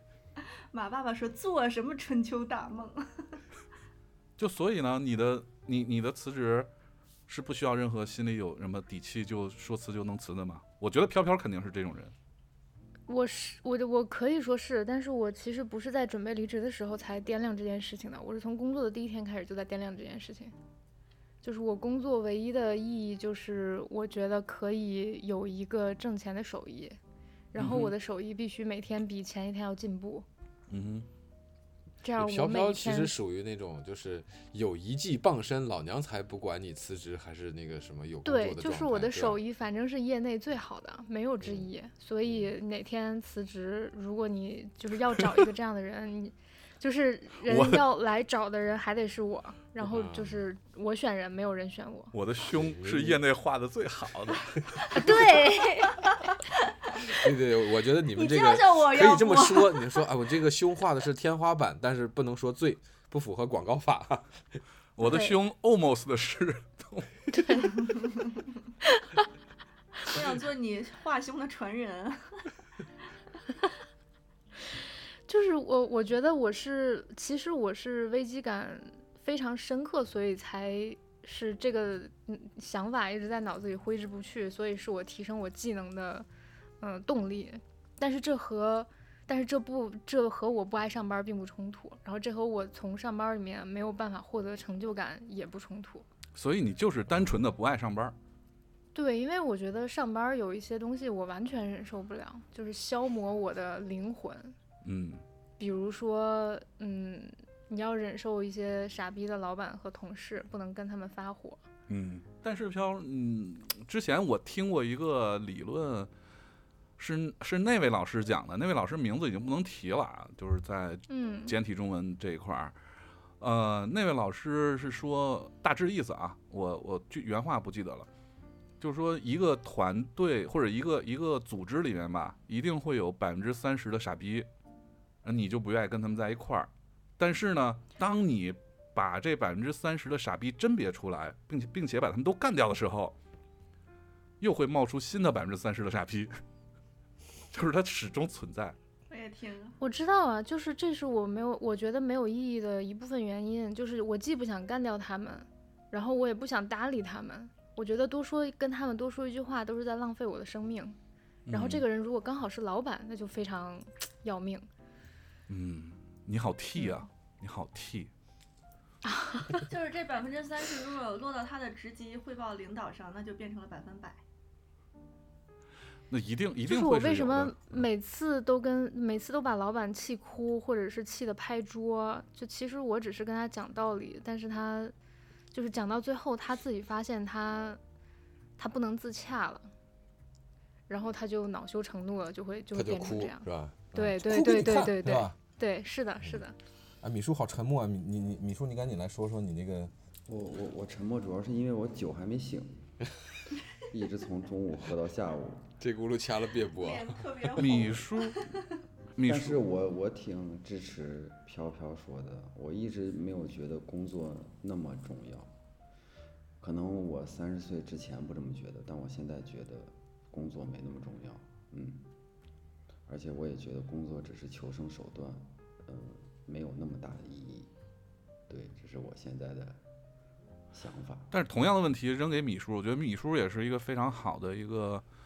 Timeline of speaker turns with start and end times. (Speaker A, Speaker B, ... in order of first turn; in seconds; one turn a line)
Speaker A: 0.7-3.4
Speaker B: 4.4-6.7
Speaker B: 7.3-12.1
Speaker C: 13.1-20.5
Speaker C: 21.4-27.0
Speaker C: 27.5-30.3
Speaker B: 27.6-27.9
Speaker B: 30.7-31.1
Speaker C: 32.0-33.2
Speaker D: 32.2-39.4
Speaker C: 38.2-52.1
Speaker D: 42.3-42.5
Speaker B: 47.5-47.8
Speaker D: 49.8-50.5
Speaker B: 52.1-54.9
Speaker D: 52.5-53.2
Speaker C: 54.9-56.0
Speaker A: 55.0-57.0
Speaker D: 57.0-64.6
Speaker A: 58.1-60.0
Speaker B: 65.0-67.1
Speaker C: 65.0-65.4
Speaker C: 67.3-67.9
Speaker C: 68.8-69.2
Speaker A: 70.1-72.5
Speaker C: 75.3-86.3
Speaker C: 86.8-96.1
Speaker B: 96.3-98.2
Speaker C: 98.9-104.5
Speaker B: 104.8-105.2
Speaker C: 105.6-111.6
Speaker B: 111.9-116.1
Speaker B: 117.0-122.8
Speaker C: 121.1-121.5
Speaker B: 123.4-128.1
Speaker B: 128.8-134.5
Speaker B: 135.2-143.2
Speaker B: 144.4-146.3
Speaker B: 147.5-148.8
Speaker A: 149.1-149.8
Speaker C: 149.8-161.0
Speaker B: 161.5-161.8
Speaker C: 161.5-164.7
Speaker B: 165.5-168.1
Speaker C: 169.1-169.7
Speaker A: 169.7-174.2
Speaker B: 176.1-177.8
Speaker C: 176.7-184.9
Speaker C: 185.5-187.8
Speaker C: 188.6-189.7
Speaker C: 190.9-196.6
Speaker D: 192.7-195.4
Speaker D: 197.0-199.9
Speaker E: 200.3-202.9
Speaker E: 203.9-205.7
Speaker D: 205.8-207.2
Speaker A: 206.8-208.7
Speaker B: 207.6-208.4
Speaker B: 209.2-209.6
Speaker E: 209.2-215.5
Speaker E: 216.6-222.1
Speaker E: 223.1-227.7
Speaker E: 228.5-229.8
Speaker E: 230.7-231.3
Speaker B: 231.3-235.0